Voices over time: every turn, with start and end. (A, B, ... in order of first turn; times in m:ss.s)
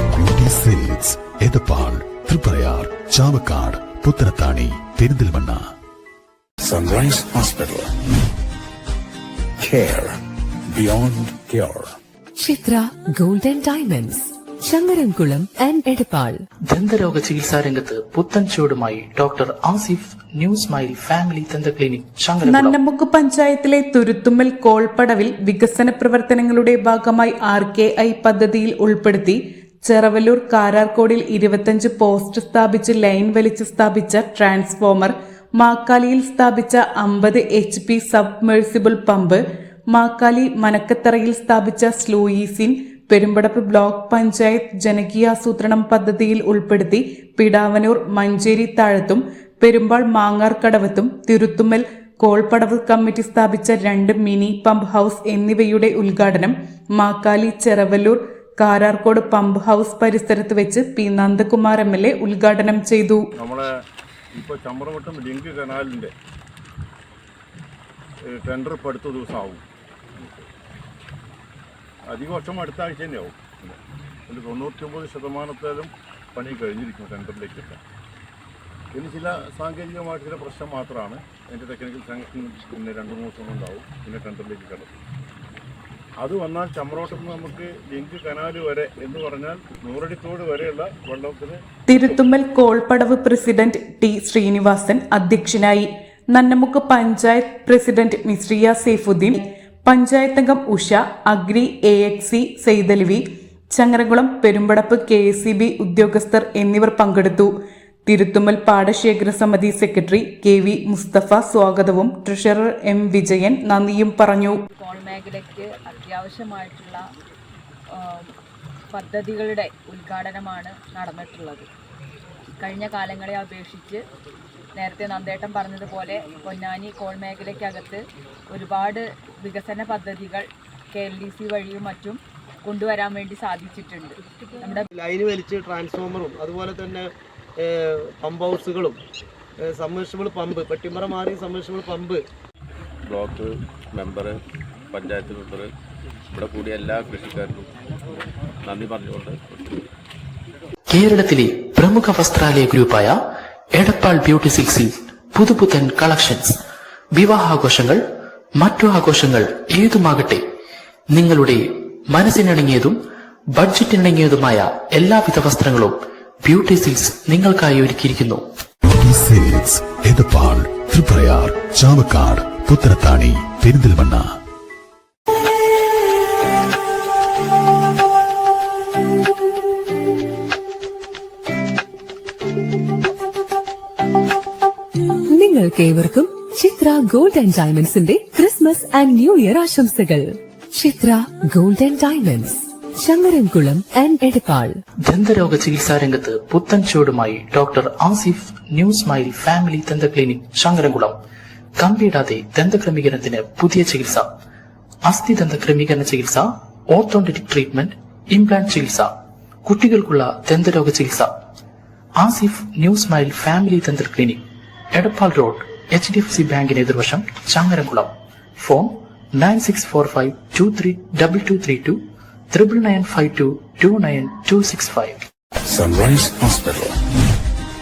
0:00.2-0:05.6 A
0:06.6-0:08.0 B
0:09.6-0:10.2 B
0:10.7-0:12.0 B
0:12.4-0:16.5 C
0:16.7-0:22.8 D
0:22.4-1:03.2 E
1:03.4-1:03.7 F
1:04.3-1:06.1 F
1:08.3-1:09.6 F
1:10.2-1:10.5 F
1:12.1-1:17.8 F
1:18.9-1:24.9 F
1:26.2-1:31.6 F
1:31.9-1:47.5 E
1:48.1-1:54.6 E
1:54.7-1:57.0 G
1:57.9-1:58.3 G
1:58.9-2:01.7 G
2:02.6-2:04.0 G
2:04.7-2:14.9 G
2:14.9-2:17.1 H
2:17.6-2:19.0 H
2:19.6-2:22.2 H
2:23.1-2:24.4 I
2:24.9-2:25.7 I
2:26.3-2:27.6 I
2:28.6-2:29.8 I
2:30.9-2:33.2 D
2:33.7-2:36.6 D
2:37.2-2:38.0 D
2:38.6-2:40.4 D
2:41.1-2:43.0 D
2:43.5-2:48.4 D
2:48.9-2:54.2 A
3:05.3-3:14.8 C
3:15.1-3:21.2 D
3:21.8-3:24.3 D
3:25.0-3:29.1 D
3:29.6-3:31.3 D
3:32.2-3:34.4 D
3:34.9-3:45.2 D
3:45.7-3:47.0 B